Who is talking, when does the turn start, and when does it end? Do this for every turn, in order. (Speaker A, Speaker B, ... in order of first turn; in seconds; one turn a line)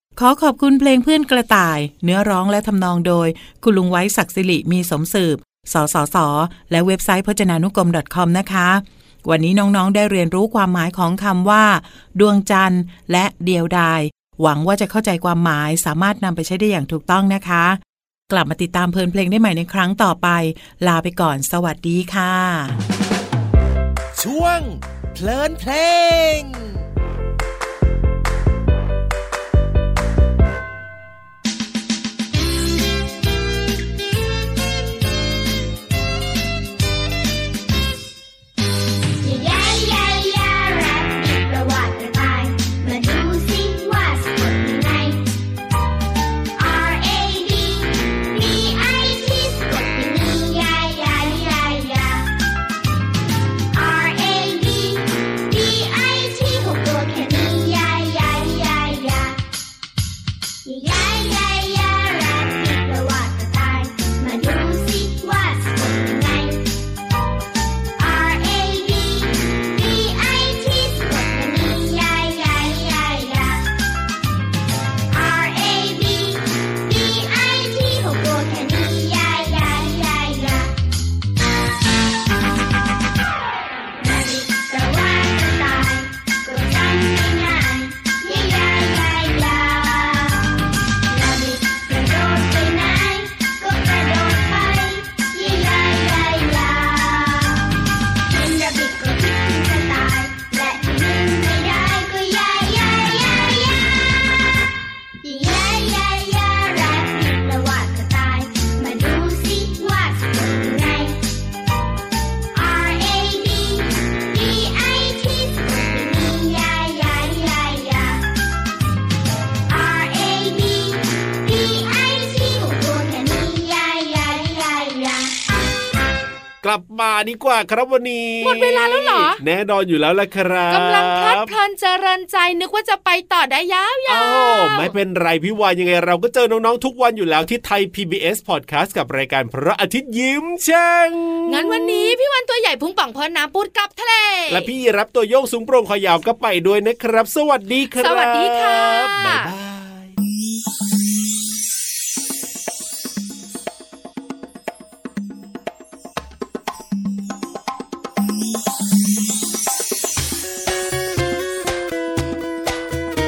Speaker A: 0.1-22.8
Speaker B: 24.1-26.8
Speaker C: 39.2-45.3
Speaker C: 46.5-52.3
Speaker C: 53.7-59.4
Speaker C: 60.6-66.7
Speaker C: 68.0-73.7
Speaker C: 75.1-80.7
Speaker C: 84.0-90.5
Speaker C: 91.1-97.7
Speaker C: 98.2-103.9
Speaker C: 105.2-111.2
Speaker C: 112.5-118.2
Speaker C: 119.7-125.3
Speaker D: 126.6-131.5
Speaker E: 128.4-129.4
Speaker E: 130.7-134.9
Speaker D: 134.1-142.1
Speaker E: 141.5-144.7
Speaker D: 144.5-150.1
Speaker E: 148.0-149.5